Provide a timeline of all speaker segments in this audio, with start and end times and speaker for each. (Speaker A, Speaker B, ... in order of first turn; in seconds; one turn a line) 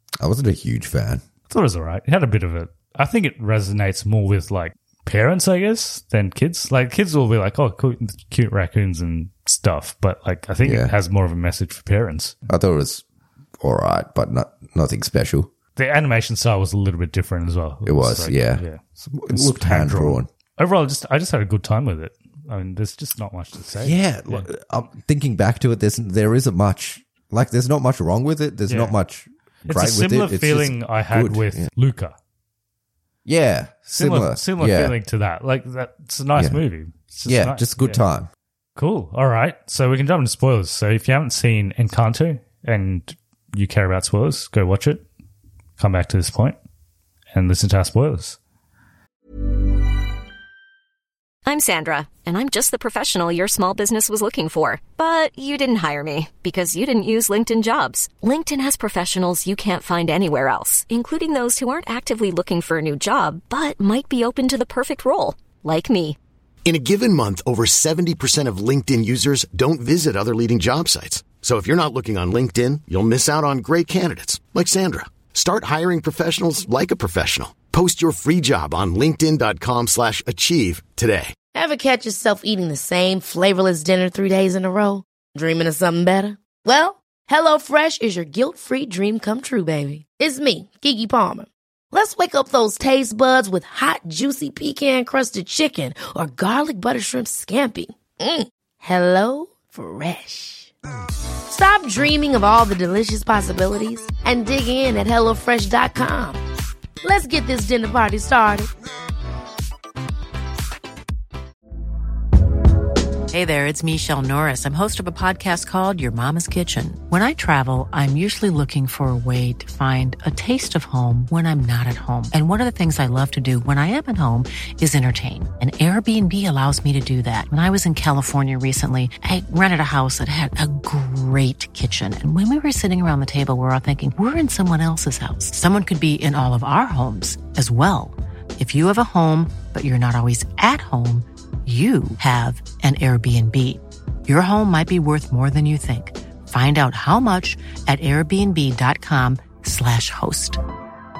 Speaker A: 0.2-1.2
Speaker B: 1.5-12.3
Speaker A: 10.6-10.9
Speaker A: 12.5-13.0
Speaker A: 13.6-15.5
Speaker B: 15.8-24.5
Speaker A: 17.8-20.3
Speaker A: 23.8-31.7
Speaker B: 28.7-28.9
Speaker B: 29.6-32.1
Speaker A: 33.2-35.0
Speaker B: 33.9-38.0
Speaker A: 36.3-36.6
Speaker A: 37.2-38.3
Speaker B: 38.8-45.0
Speaker B: 45.8-46.6
Speaker B: 47.3-48.4
Speaker C: 51.5-66.2
Speaker D: 66.6-81.3
Speaker E: 81.5-100.7
Speaker E: 101.5-106.4
Speaker E: 107.0-108.7
Speaker F: 113.3-150.6